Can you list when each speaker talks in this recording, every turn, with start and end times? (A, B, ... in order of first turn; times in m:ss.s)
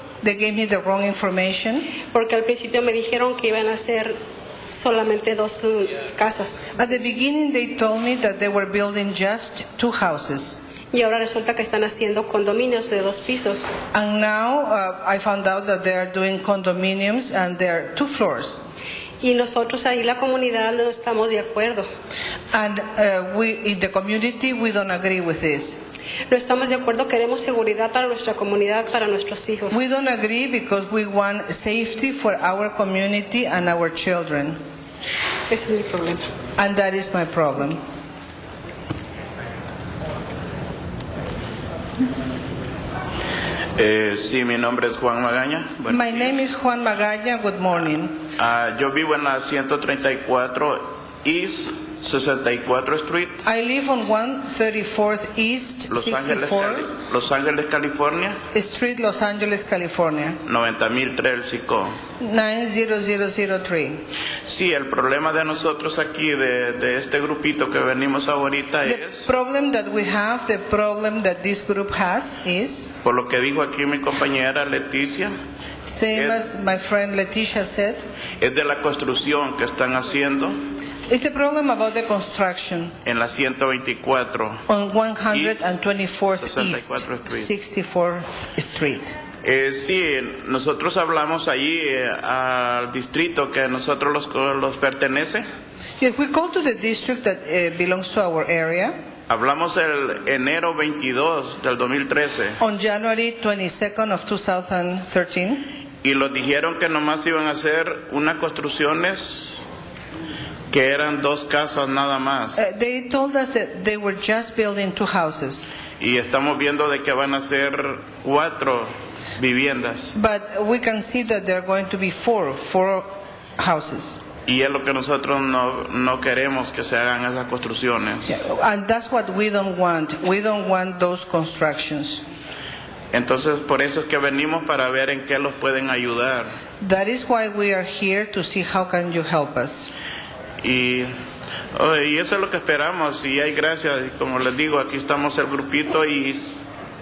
0:00.2-0:01.9 A
0:02.1-0:06.7 B
0:06.8-0:10.6 A
0:10.9-0:13.7 B
0:13.9-0:18.6 A
0:19.2-0:21.8 B
0:22.5-0:25.8 A
0:26.3-0:29.8 B
0:29.7-0:34.6 A
0:35.5-0:36.2 B
0:36.6-0:37.8 A
0:43.8-0:46.5 C
0:45.9-0:48.2 A
0:48.4-0:53.4 C
0:53.4-0:56.9 A
0:55.9-0:58.4 C
0:58.5-1:00.4 A
1:00.5-1:01.9 C
1:02.2-1:04.0 A
1:04.4-1:09.3 C
1:08.8-1:12.9 A
1:13.0-1:15.3 C
1:15.8-1:18.0 A
1:16.1-1:16.4 C
1:18.4-1:20.6 C
1:21.1-1:22.9 A
1:23.0-1:24.6 C
1:24.7-1:29.1 A
1:25.3-1:25.8 C
1:26.4-1:27.5 C
1:29.4-1:35.4 C
1:36.0-1:39.0 A
1:39.3-1:42.6 C
1:42.6-1:45.7 A
1:46.0-1:49.7 C
1:50.7-1:52.6 C
1:52.6-1:55.7 A
1:56.0-2:00.2 C
2:00.1-2:03.1 A
2:03.6-2:04.1 A
2:04.5-2:08.4 C
2:08.3-2:12.2 A
2:13.1-2:16.5 C
2:16.8-2:19.9 A
2:20.6-2:21.1 C
2:21.7-2:26.6 C